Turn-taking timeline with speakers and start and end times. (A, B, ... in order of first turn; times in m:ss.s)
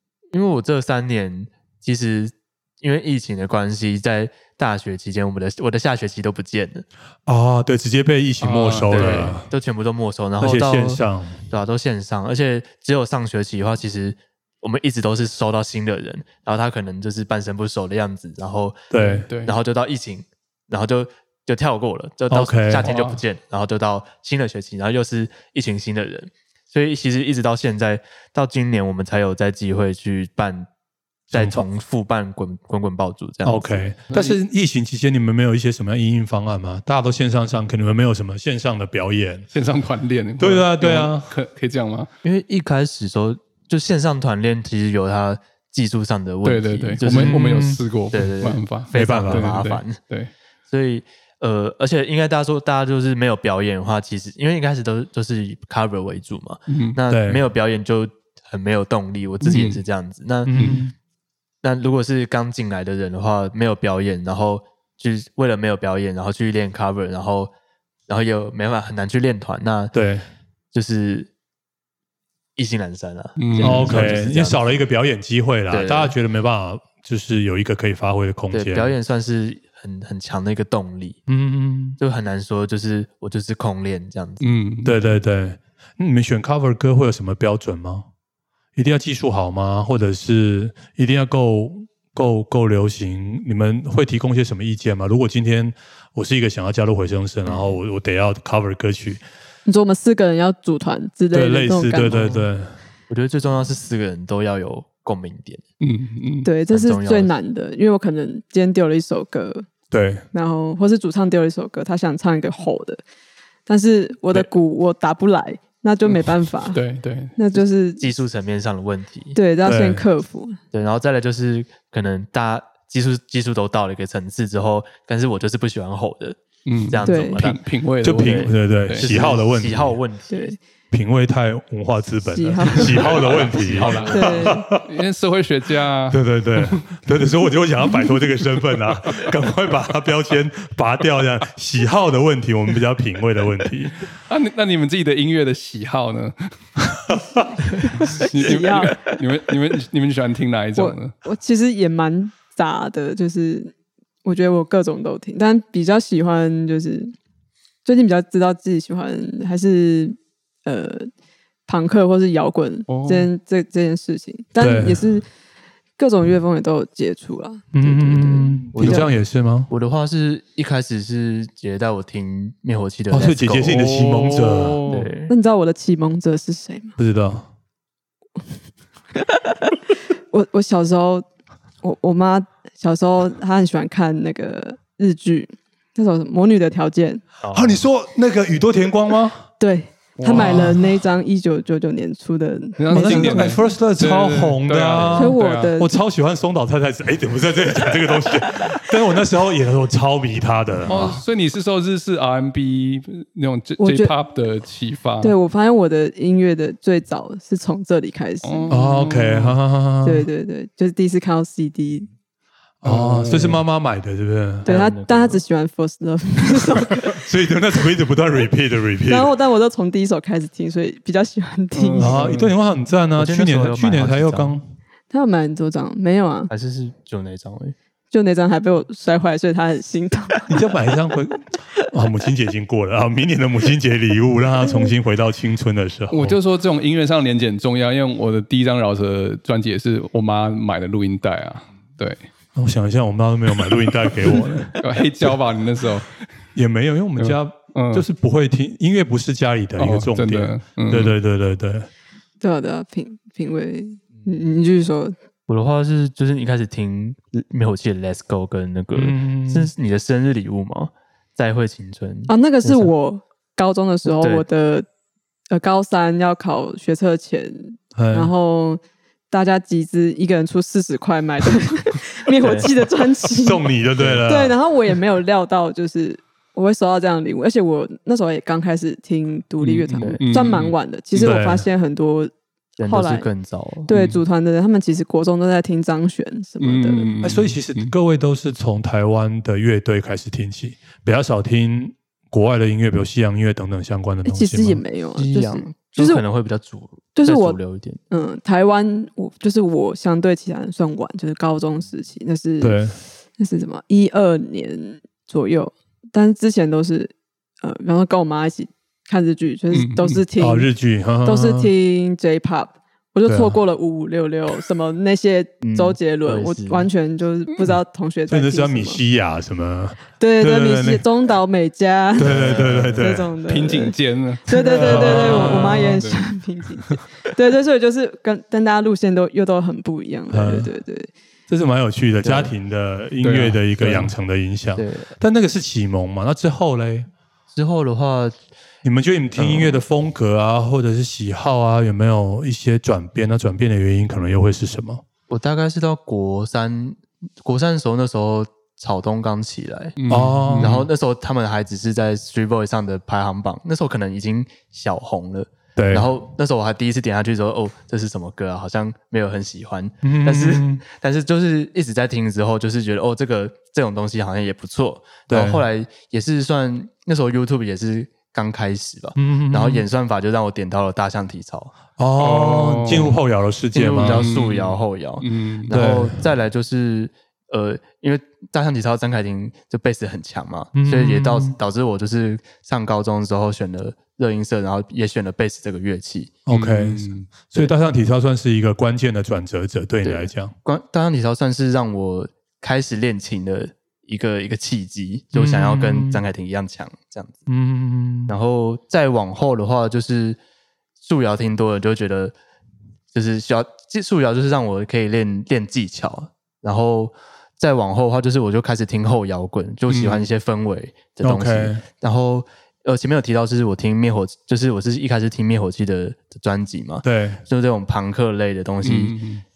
0:00.3-0:06.9 A
0:07.3-0:09.5 B
0:08.4-0:09.4 C
0:08.9-0:18.8 A
0:10.4-0:11.4 B
0:18.9-0:19.3 B
0:19.0-0:19.5 C
0:19.4-0:30.7 A
0:22.3-0:22.9 B
0:22.8-0:23.2 C
0:31.3-0:33.9 A
0:31.3-0:31.6 B
0:33.4-0:39.5 B
0:34.1-0:34.4 C
0:39.5-0:42.1 C
0:40.4-0:41.3 B
0:42.2-0:47.5 A
0:46.4-0:50.3 C
0:47.0-0:47.8 B
0:48.1-0:50.0 A
0:48.9-0:49.6 B
0:50.7-1:00.8 A
0:56.7-0:57.0 C
0:57.1-0:57.4 B
0:59.4-0:59.8 C
1:00.5-1:00.9 B
1:00.5-1:00.8 C
1:01.6-1:07.5 A
1:08.1-1:09.9 A
1:09.9-1:10.2 B
1:10.7-1:11.3 A
1:12.6-1:14.8 A
1:13.4-1:14.1 C
1:13.6-1:18.9 B
1:15.7-1:16.2 A
1:18.5-1:21.2 A
1:21.3-1:22.0 B
1:22.0-1:24.4 A
1:24.4-1:25.0 C
1:24.8-1:28.1 B
1:28.8-1:39.2 B
1:37.4-1:37.8 A
1:39.7-1:42.3 D
1:41.3-1:42.7 B
1:42.0-1:42.4 A
1:43.1-1:45.6 A
1:45.8-1:46.5 C
1:46.4-1:49.7 D
1:46.7-1:47.3 A
1:49.9-1:50.2 B
1:50.3-1:53.0 D
1:53.7-1:56.8 D
1:56.7-1:57.3 C
1:57.4-1:58.1 D
1:58.0-1:59.4 A
1:59.3-2:00.6 D
1:59.6-2:00.0 B
2:00.7-2:07.6 A
2:06.7-2:09.1 C
2:07.0-2:07.4 D
2:08.0-2:10.0 B
2:08.1-2:10.6 A
2:10.3-2:10.6 D
2:10.9-2:14.9 B
2:12.2-2:13.0 D
2:12.8-2:17.0 C
2:13.1-2:14.4 A
2:14.1-2:14.7 D
2:16.1-2:24.0 B
2:17.9-2:19.3 C
2:24.3-2:26.5 C
2:27.7-2:29.2 D
2:28.0-2:31.1 C
2:30.8-2:33.7 D
2:34.2-2:37.1 D
2:37.8-2:41.1 D
2:41.7-2:45.3 D
2:42.9-2:43.3 C
2:44.6-2:45.1 B
2:46.0-2:49.1 D
2:47.7-2:49.7 B
2:48.7-2:49.1 A
2:49.7-2:53.9 A
2:53.1-2:54.8 B
2:53.7-2:55.1 C
2:54.9-2:55.3 A
2:55.3-2:57.0 D
2:57.0-2:57.5 B
2:59.2-2:59.8 D
3:00.3-3:01.2 D
3:01.8-3:07.2 D
3:07.4-3:07.8 A
3:07.5-3:09.5 B
3:09.6-3:13.6 D
3:10.2-3:10.8 C
3:10.3-3:11.0 B
3:12.8-3:15.7 C
3:12.9-3:21.2 B
3:15.1-3:16.0 D
3:20.9-3:25.4 C
3:23.8-3:24.1 D
3:25.2-3:28.8 D
3:28.4-3:29.6 C
3:28.7-3:30.3 B
3:30.0-3:32.1 D
3:32.8-3:34.7 B
3:32.8-3:33.6 C
3:34.6-3:35.4 A
3:34.7-3:37.2 D
3:37.0-3:39.3 B
3:39.1-3:42.2 D
3:41.8-3:42.5 C
3:42.0-3:44.6 B
3:43.2-3:44.6 A
3:45.1-3:46.5 D
3:46.5-3:47.8 A
3:48.1-3:50.5 D
3:50.5-3:56.4 B
3:56.1-4:02.2 C
4:02.6-4:05.3 B
4:03.6-4:06.2 C
4:06.6-4:11.9 B
4:07.2-4:08.1 C
4:09.8-4:11.2 C
4:12.4-4:15.2 D
4:15.5-4:22.9 A
4:19.0-4:19.7 B
4:22.3-4:24.9 D
4:24.1-4:24.4 A
4:25.5-4:33.7 D
4:28.0-4:28.3 B
4:32.4-4:32.7 A
4:33.3-4:34.6 B
4:34.0-4:34.3 A
4:34.2-4:42.3 D
4:39.6-4:41.4 C
4:41.2-4:41.7 B
4:42.8-4:43.9 A
4:42.8-4:43.3 D
4:43.9-4:47.1 D
4:43.9-4:44.2 C
4:46.6-4:47.9 C
4:47.2-4:54.8 B
4:54.2-4:56.2 D
4:55.2-4:58.0 A
4:57.2-4:57.6 D
4:58.1-5:02.8 D
5:02.6-5:03.0 B
5:03.4-5:10.7 D
5:09.7-5:10.2 C
5:10.4-5:11.7 B
5:11.2-5:19.0 D
5:13.3-5:13.6 B
5:15.6-5:16.9 A
5:18.3-5:21.0 B
5:20.2-5:22.3 D
5:22.2-5:23.3 B
5:22.2-5:23.0 A
5:23.0-5:31.1 D
5:23.5-5:26.3 C
5:24.6-5:26.0 B
5:30.3-5:30.7 B
5:31.5-5:37.1 B
5:32.2-5:32.5 A
5:33.2-5:34.1 C
5:34.8-5:35.1 A
5:37.5-5:38.4 A
5:38.8-5:45.0 B
5:39.4-5:39.8 A
5:45.3-5:50.0 A
5:50.0-5:50.9 C
5:50.1-5:50.8 B
5:50.6-6:11.7 A
5:55.8-5:56.1 B
6:00.0-6:00.8 B
6:05.3-6:05.6 B
6:09.2-6:09.8 B
6:12.0-6:14.3 B
6:12.2-6:13.2 C
6:13.7-6:26.3 A
6:14.0-6:15.7 C
6:15.7-6:16.2 B
6:20.8-6:21.6 B
6:26.5-6:30.5 B
6:26.5-6:27.3 C
6:30.0-6:37.5 A
6:35.3-6:36.2 B
6:37.5-6:38.3 B
6:38.3-6:40.4 A
6:41.0-6:42.4 A
6:43.1-6:59.2 A
6:49.9-6:50.2 C
6:51.2-6:51.8 B
6:57.0-6:57.4 B
6:58.8-6:59.4 C